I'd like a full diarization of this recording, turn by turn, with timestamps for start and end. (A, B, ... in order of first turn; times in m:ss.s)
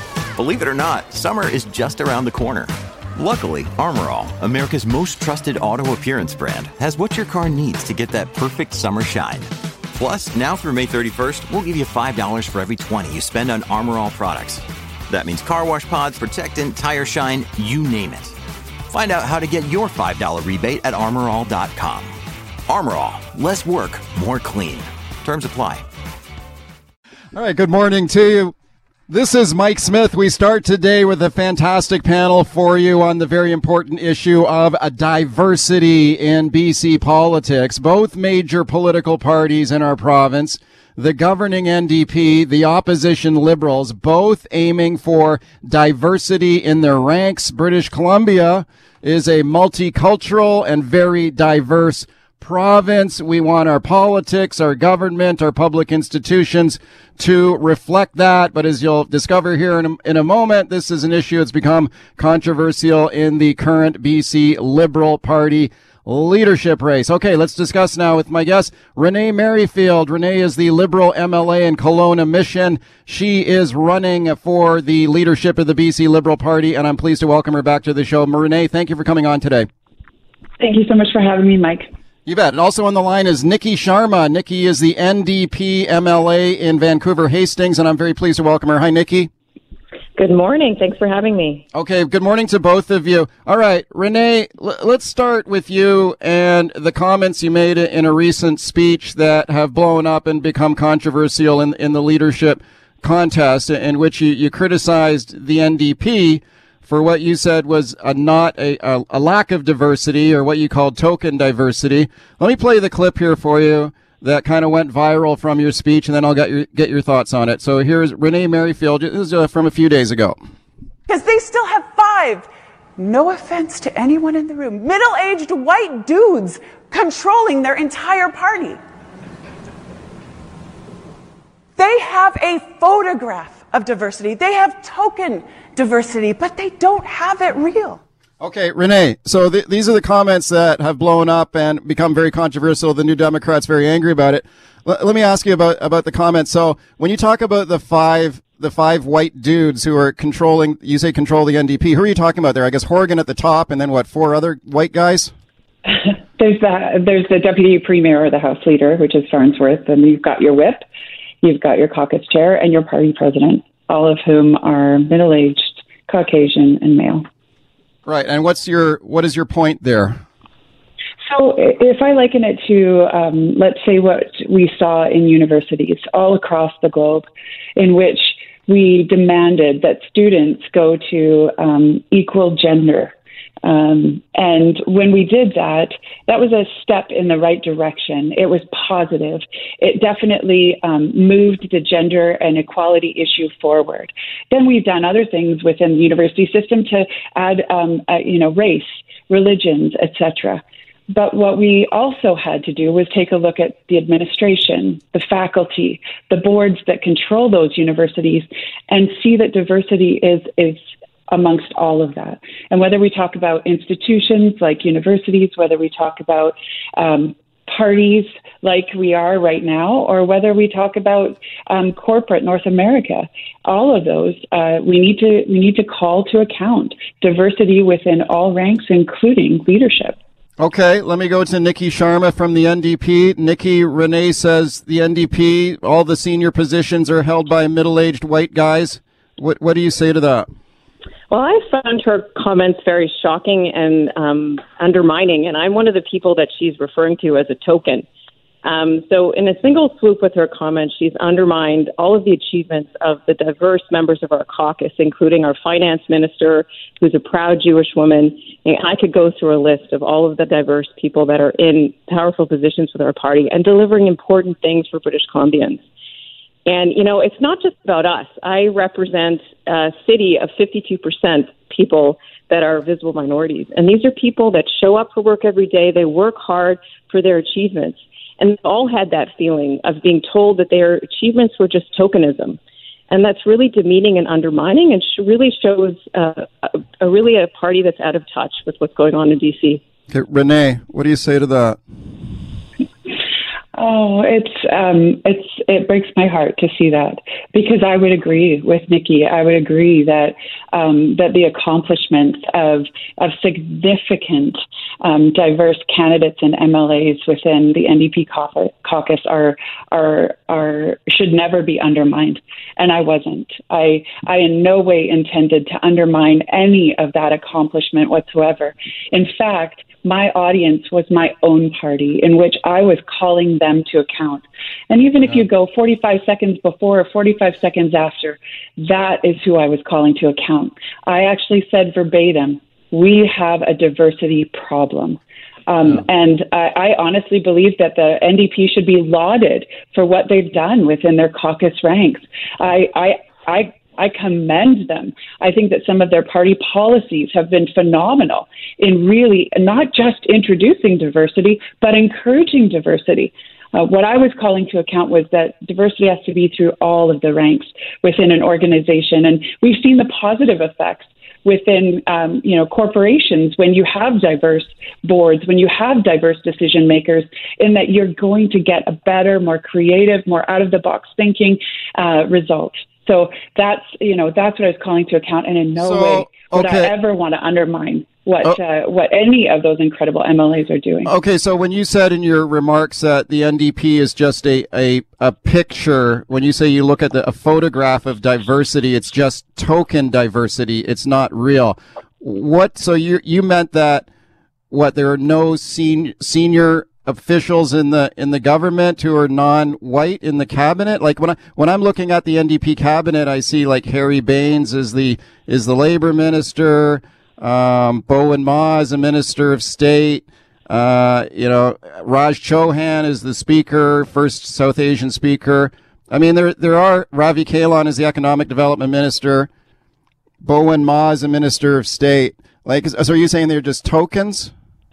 0:00.4-0:18.4 A
0:18.9-0:22.2 A
0:22.7-0:25.9 A
0:27.3-0:28.5 B
0:29.1-1:19.7 B
1:20.6-1:21.9 C
1:22.3-1:29.3 B
1:30.2-1:31.6 D
1:31.7-2:00.4 B
2:01.1-2:08.8 E
2:11.8-2:18.0 E
2:18.4-2:35.3 B
2:36.0-2:40.8 C
2:41.4-2:47.2 C
2:48.1-2:50.2 B
2:51.3-2:57.3 C
2:57.8-3:50.2 C
3:50.6-4:00.5 B
4:01.3-4:08.1 D
4:08.6-4:25.8 D
4:26.7-4:42.6 D
4:43.1-4:49.8 D
4:50.1-4:51.8 B
4:53.8-6:21.1 C
6:15.8-6:16.9 B
6:21.0-6:34.1 B
6:34.7-6:59.5 B
7:00.4-7:04.5 B